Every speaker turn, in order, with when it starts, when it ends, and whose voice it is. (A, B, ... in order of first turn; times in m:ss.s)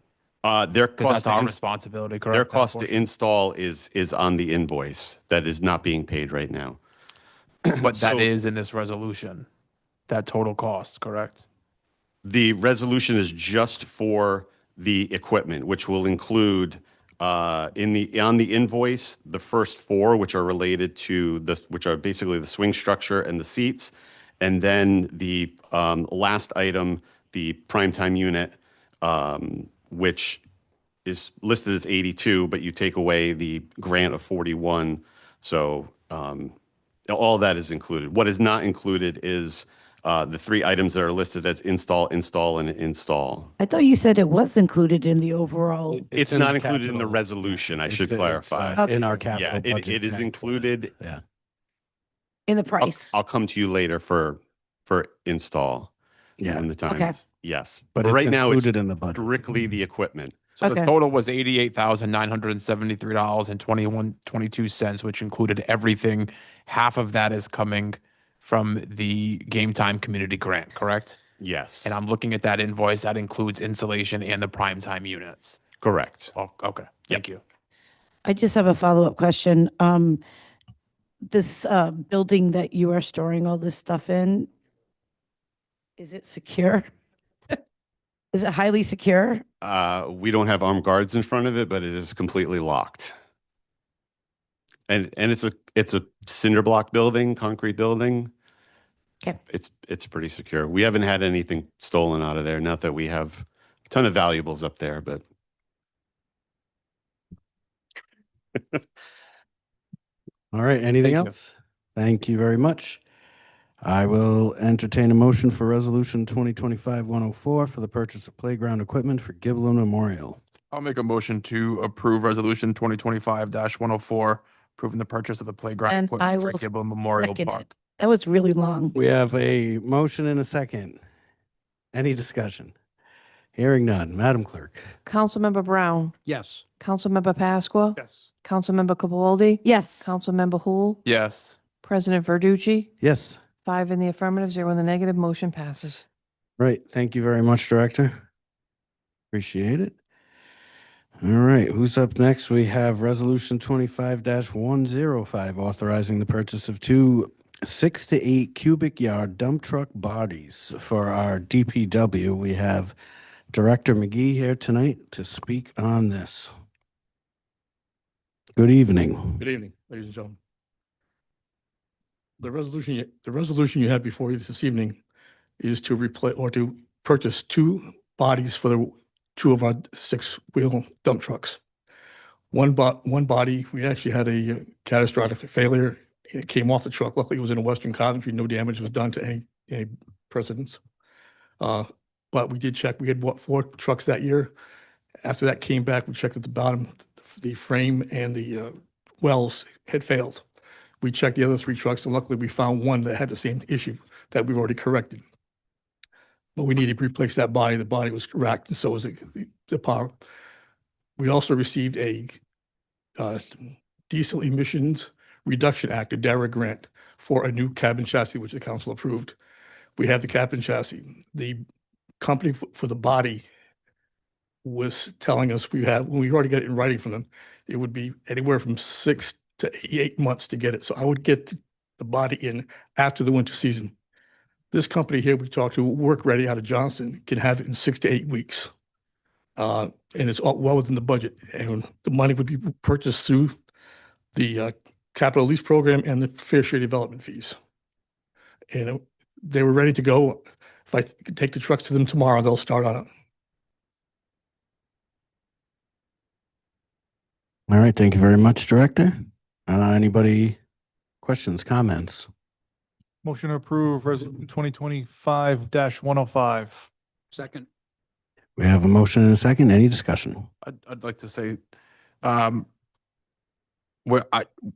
0:00.4-0:01.6 A
0:01.0-0:03.0 B
0:02.3-0:06.8 A
0:07.6-0:08.3 A
0:07.8-0:09.5 B
0:10.1-0:11.4 B
0:12.2-0:30.4 A
0:31.1-0:36.5 A
0:37.1-0:43.5 A
0:43.6-0:46.1 C
0:45.9-0:51.2 D
0:46.1-0:50.9 A
0:52.5-0:53.1 C
0:52.8-0:55.9 A
0:56.4-0:56.7 D
0:56.5-1:00.4 A
0:56.9-0:57.2 C
0:58.0-0:59.5 D
1:00.6-1:00.9 C
1:00.6-1:11.2 B
1:11.4-1:11.9 A
1:11.8-1:15.6 B
1:15.8-1:16.3 A
1:16.4-1:17.4 B
1:18.3-1:20.2 C
1:21.3-1:24.5 C
1:26.0-1:26.9 C
1:28.3-1:29.4 C
1:29.6-1:33.1 A
1:34.9-1:38.3 A
1:39.5-1:45.2 A
1:50.5-1:53.0 D
1:51.0-1:51.3 B
1:53.8-2:00.4 D
2:00.7-2:07.7 B
2:05.9-2:06.7 C
2:07.2-2:09.0 C
2:08.9-2:11.0 D
2:11.9-2:12.7 D
2:13.6-2:14.9 D
2:15.1-2:16.1 E
2:16.8-2:21.0 E
2:19.6-2:20.1 C
2:21.0-2:21.6 B
2:21.8-2:22.9 E
2:23.0-2:23.4 D
2:23.7-2:26.0 E
2:26.6-2:28.2 D
2:29.3-2:30.0 D
2:31.2-2:43.0 D
2:43.5-2:46.5 D
2:48.6-2:49.4 D
2:49.4-2:50.4 F
2:52.4-2:55.0 F
2:55.6-3:01.6 F
3:02.5-3:10.8 F
3:11.6-3:14.5 F
3:15.2-3:18.7 F
3:19.2-3:20.4 F
3:21.0-3:25.2 F
3:26.6-3:30.1 F
3:31.2-3:32.4 F
3:33.2-3:33.6 F
3:34.1-3:39.4 F
3:40.0-3:41.6 F
3:42.2-3:43.5 F
3:44.6-3:53.9 F
3:54.7-3:58.7 F
3:59.6-4:03.5 F
4:04.3-4:07.6 F
4:08.7-4:13.1 F
4:17.7-4:19.2 D
4:19.7-4:20.6 D
4:21.2-4:22.3 D
4:23.2-4:26.9 G
4:28.6-4:30.5 D
4:30.6-4:31.6 B
4:32.2-4:32.7 B
4:34.0-4:34.5 B